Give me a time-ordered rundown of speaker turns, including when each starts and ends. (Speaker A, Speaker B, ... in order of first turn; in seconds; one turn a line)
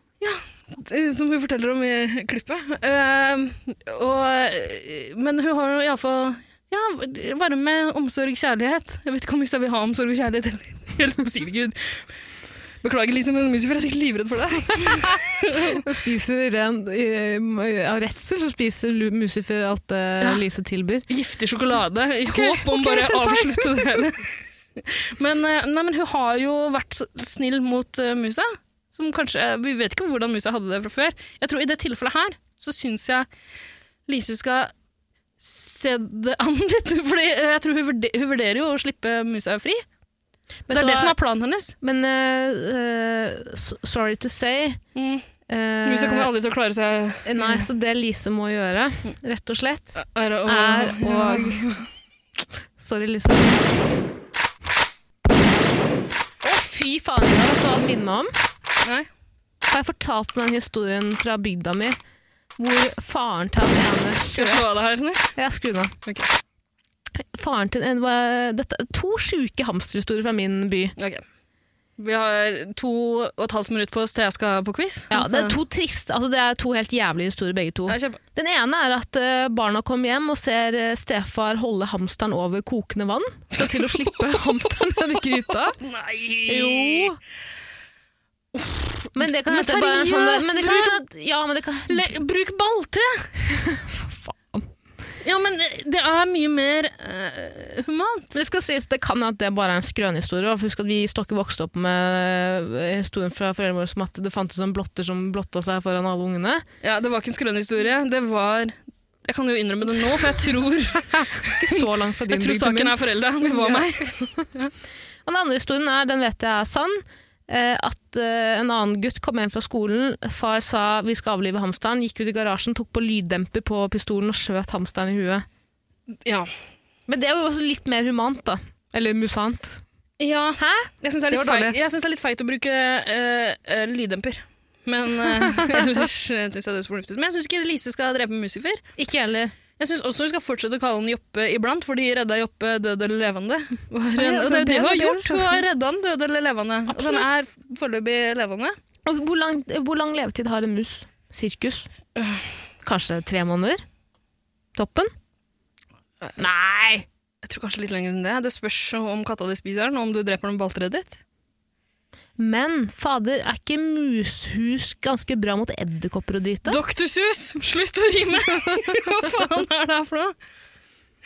Speaker A: 0.2-12.0
Speaker A: 12.8-15.8
Speaker B: 14.8-21.1
Speaker A: 21.1-33.3
Speaker B: 22.3-24.0
Speaker A: 34.1-34.7
Speaker A: 35.4-39.8
Speaker B: 40.7-41.1
Speaker A: 40.7-41.8
Speaker B: 41.8-44.8
Speaker A: 44.9-45.2
Speaker B: 45.5-46.3
Speaker A: 45.9-47.7
Speaker B: 47.2-49.9
Speaker A: 50.0-51.9
Speaker B: 50.5-51.6
Speaker B: 52.8-53.7
Speaker B: 56.4-58.3
Speaker A: 58.8-59.1
Speaker B: 59.7-62.0
Speaker B: 62.6-64.7
Speaker A: 64.4-65.3
Speaker B: 65.3-66.0
Speaker B: 67.3-71.0
Speaker A: 71.0-71.2
Speaker A: 72.0-75.6
Speaker B: 75.1-85.8
Speaker A: 77.9-78.2
Speaker A: 83.6-87.1
Speaker B: 86.5-87.2
Speaker A: 88.5-91.0
Speaker B: 89.2-92.1
Speaker A: 91.9-93.3
Speaker B: 93.5-94.7
Speaker A: 95.2-98.3
Speaker B: 98.3-106.6
Speaker A: 106.8-114.7
Speaker B: 111.1-114.4
Speaker B: 115.2-125.4
Speaker A: 126.2-126.5
Speaker B: 127.1-129.8
Speaker A: 130.2-138.8
Speaker B: 130.6-131.8
Speaker B: 135.3-135.7
Speaker B: 139.0-139.5
Speaker A: 139.8-148.8
Speaker B: 144.2-145.6
Speaker B: 146.9-147.2
Speaker B: 149.1-151.9
Speaker A: 152.2-152.4
Speaker B: 152.8-153.8
Speaker B: 154.7-155.1
Speaker B: 156.4-157.1
Speaker A: 157.4-161.2
Speaker B: 162.4-166.8
Speaker A: 166.7-170.3